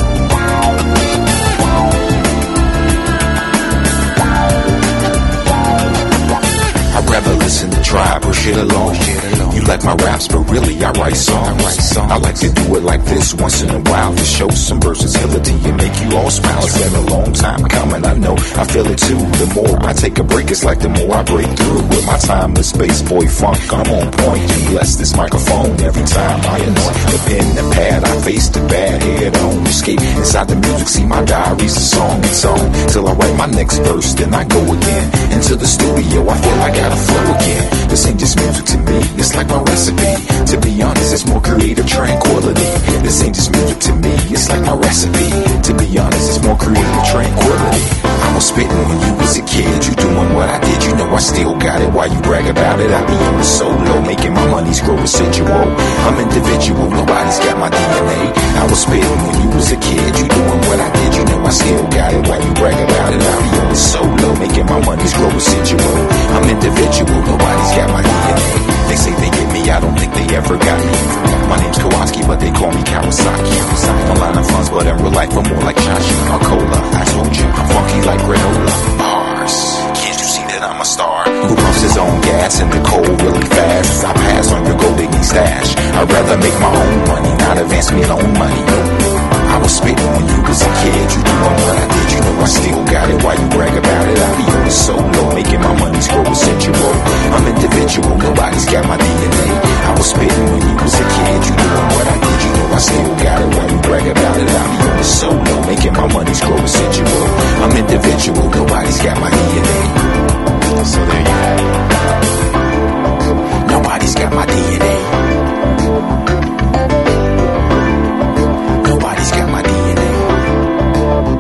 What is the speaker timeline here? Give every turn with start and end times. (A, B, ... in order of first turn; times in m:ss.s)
0:06.9-1:50.0 A
1:50.9-1:51.6 A
1:53.6-1:55.2 A
1:58.8-2:00.4 A